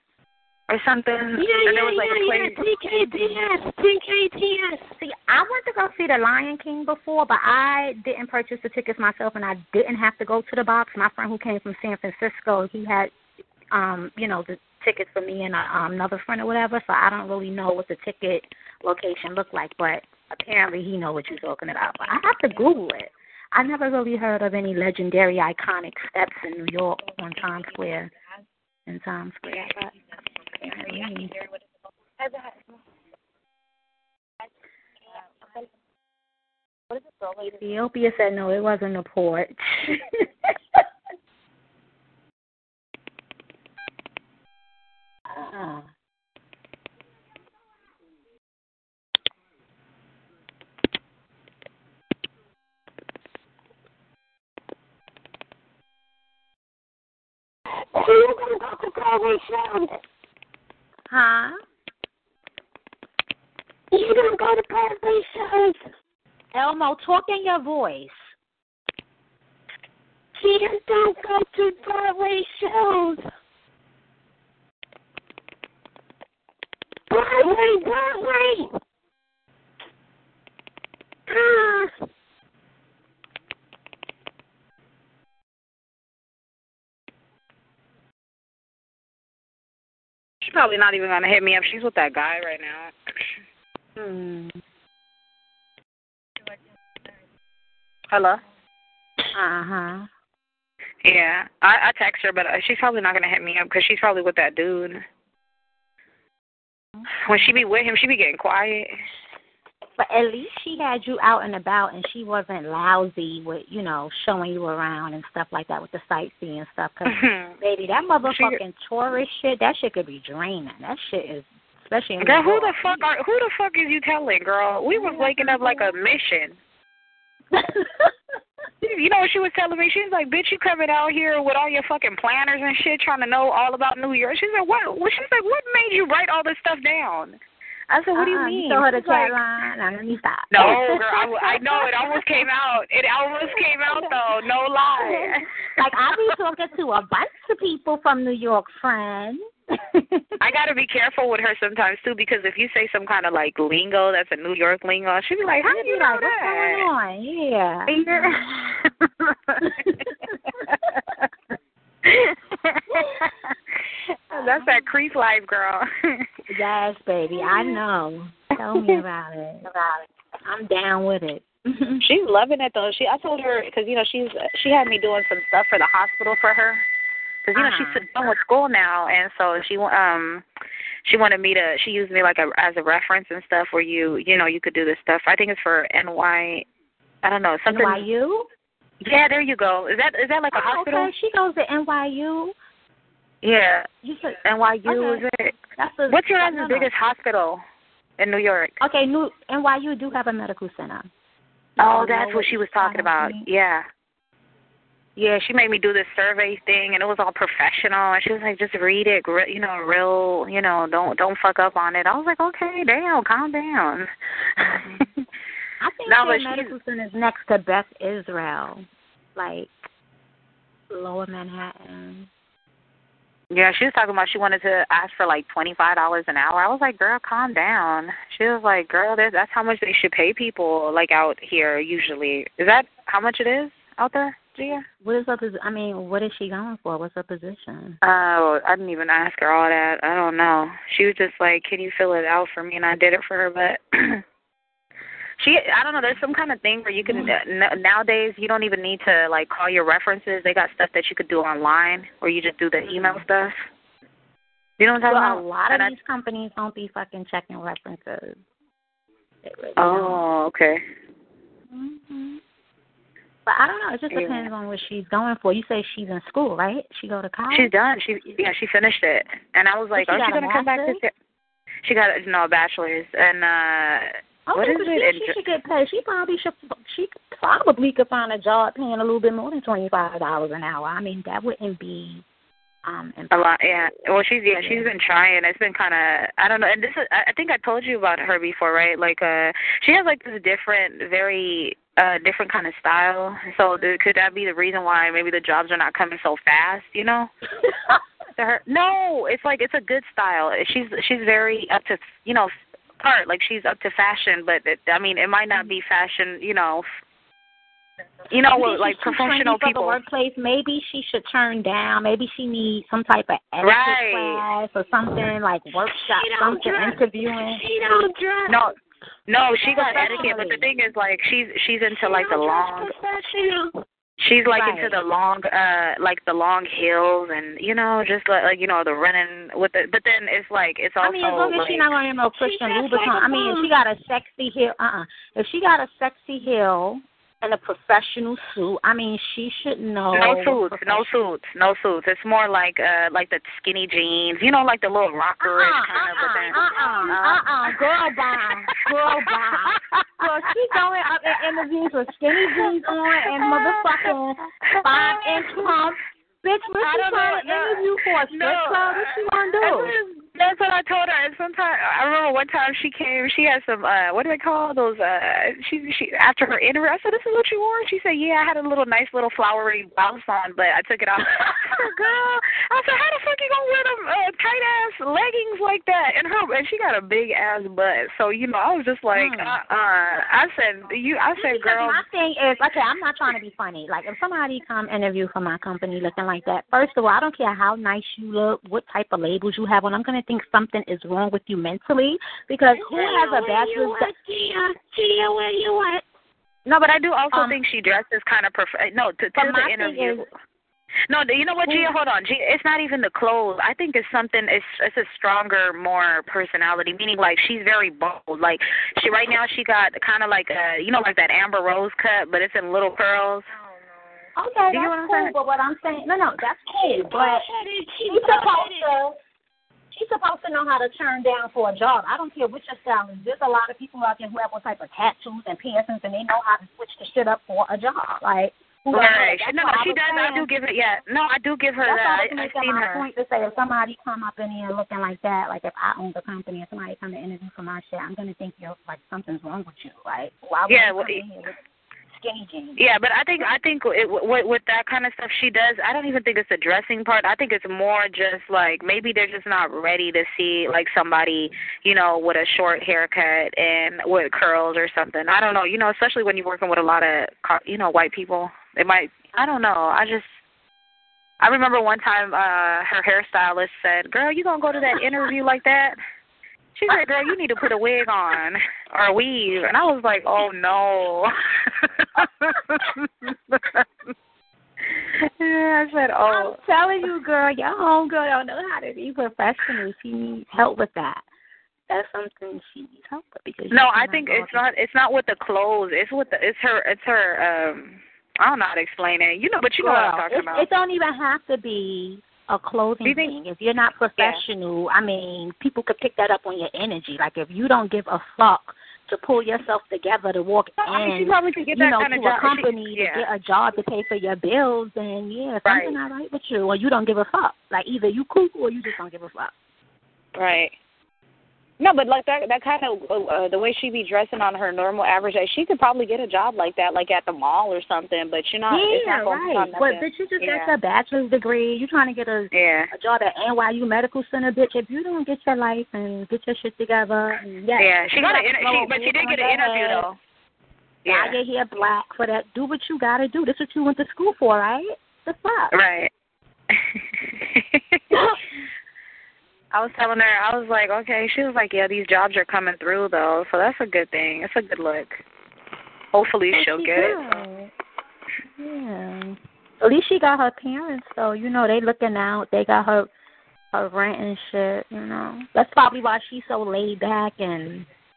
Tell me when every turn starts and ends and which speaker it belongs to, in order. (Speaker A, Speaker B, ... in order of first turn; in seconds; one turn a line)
Speaker A: 0.7-2.6
Speaker B: 1.4-4.8
Speaker C: 2.9-3.4
Speaker C: 5.0-13.1
Speaker C: 13.7-28.1
Speaker C: 28.9-29.9
Speaker C: 30.5-31.3
Speaker C: 37.4-40.0
Speaker C: 45.3-45.9
Speaker B: 57.9-59.9
Speaker C: 61.1-61.6
Speaker B: 63.9-65.8
Speaker C: 66.5-68.2
Speaker B: 70.4-73.2
Speaker B: 77.1-78.7
Speaker B: 81.3-81.9
Speaker A: 90.4-92.9
Speaker C: 94.0-94.5
Speaker A: 98.1-98.4
Speaker C: 99.3-100.1
Speaker A: 101.0-105.0
Speaker C: 107.0-107.6
Speaker A: 107.2-108.9
Speaker C: 110.0-123.1
Speaker A: 117.1-117.6
Speaker A: 118.2-118.6
Speaker A: 122.2-126.6
Speaker C: 124.9-125.9
Speaker C: 127.5-128.1
Speaker A: 128.8-137.4
Speaker A: 137.9-139.4
Speaker C: 138.1-142.4
Speaker A: 140.5-145.4
Speaker C: 143.6-144.2
Speaker C: 145.0-150.3
Speaker A: 150.4-156.8
Speaker C: 155.6-158.8
Speaker A: 157.9-159.6
Speaker C: 159.6-160.4
Speaker A: 162.1-163.3
Speaker C: 164.3-164.9
Speaker A: 164.3-166.2
Speaker C: 166.5-172.0
Speaker A: 172.0-176.8
Speaker A: 177.4-180.4
Speaker C: 177.5-178.0
Speaker A: 181.0-186.7
Speaker A: 187.2-188.1
Speaker C: 187.7-188.5
Speaker A: 189.0-191.1
Speaker C: 190.5-192.5
Speaker A: 193.4-193.9
Speaker C: 194.0-195.2
Speaker A: 194.4-195.6
Speaker C: 195.8-196.9
Speaker A: 196.1-197.6
Speaker A: 198.2-198.8
Speaker C: 198.8-201.1
Speaker C: 201.8-203.4
Speaker A: 201.8-203.8
Speaker A: 205.2-214.1
Speaker C: 214.6-215.0
Speaker A: 214.6-215.0
Speaker C: 215.8-219.9
Speaker A: 216.1-216.7
Speaker C: 220.9-222.3
Speaker A: 223.5-234.8
Speaker C: 235.0-238.0
Speaker A: 238.0-244.2
Speaker A: 245.4-253.6
Speaker C: 247.0-247.3
Speaker C: 252.8-253.2
Speaker A: 254.8-255.9
Speaker C: 255.1-258.4
Speaker C: 259.4-260.2
Speaker A: 259.8-260.8
Speaker C: 261.7-262.4
Speaker C: 263.4-267.7
Speaker A: 264.1-264.5
Speaker A: 267.5-271.1
Speaker C: 269.9-271.0
Speaker A: 271.8-275.3
Speaker C: 274.5-282.2
Speaker C: 282.8-283.7
Speaker A: 283.3-297.3
Speaker C: 284.6-284.9
Speaker A: 298.4-306.8
Speaker A: 308.3-310.0
Speaker C: 308.5-317.6
Speaker A: 313.6-314.4
Speaker B: 316.1-318.7
Speaker A: 318.5-318.7
Speaker A: 319.3-322.9
Speaker B: 319.6-320.4
Speaker C: 319.7-320.6
Speaker B: 321.9-323.7
Speaker A: 324.2-331.9
Speaker C: 324.5-325.0
Speaker C: 331.0-341.1
Speaker B: 332.4-333.7
Speaker A: 340.1-347.7
Speaker C: 345.4-359.9
Speaker B: 346.2-347.1
Speaker A: 353.4-354.1
Speaker A: 354.7-355.7
Speaker A: 356.8-382.0
Speaker C: 379.1-379.6
Speaker C: 381.4-394.1
Speaker B: 392.7-396.0
Speaker A: 396.6-400.2
Speaker C: 397.3-397.6
Speaker C: 399.4-400.2
Speaker A: 401.1-413.5
Speaker C: 401.6-401.9
Speaker C: 414.4-417.5
Speaker A: 414.7-415.3
Speaker B: 416.8-418.9
Speaker C: 418.0-419.2
Speaker C: 419.9-430.5
Speaker A: 428.9-433.1
Speaker C: 431.8-441.5
Speaker A: 440.7-441.2
Speaker C: 442.1-442.8
Speaker A: 442.8-460.4
Speaker A: 461.4-466.0
Speaker A: 466.7-473.8
Speaker A: 475.2-476.6
Speaker C: 476.3-481.2
Speaker C: 481.9-484.6
Speaker A: 483.7-490.7
Speaker C: 489.8-509.5
Speaker A: 493.0-493.3
Speaker A: 494.2-494.4
Speaker A: 500.9-503.2
Speaker A: 505.6-506.0
Speaker A: 510.4-510.7
Speaker A: 511.8-520.7
Speaker C: 518.7-530.1
Speaker A: 522.5-522.9
Speaker A: 527.8-530.2
Speaker A: 531.0-531.4
Speaker C: 531.0-535.7
Speaker A: 535.7-536.1
Speaker A: 536.7-538.2
Speaker C: 538.1-538.4
Speaker A: 539.7-545.2
Speaker A: 546.1-547.4
Speaker C: 546.5-547.7
Speaker C: 548.5-553.1
Speaker C: 553.7-557.9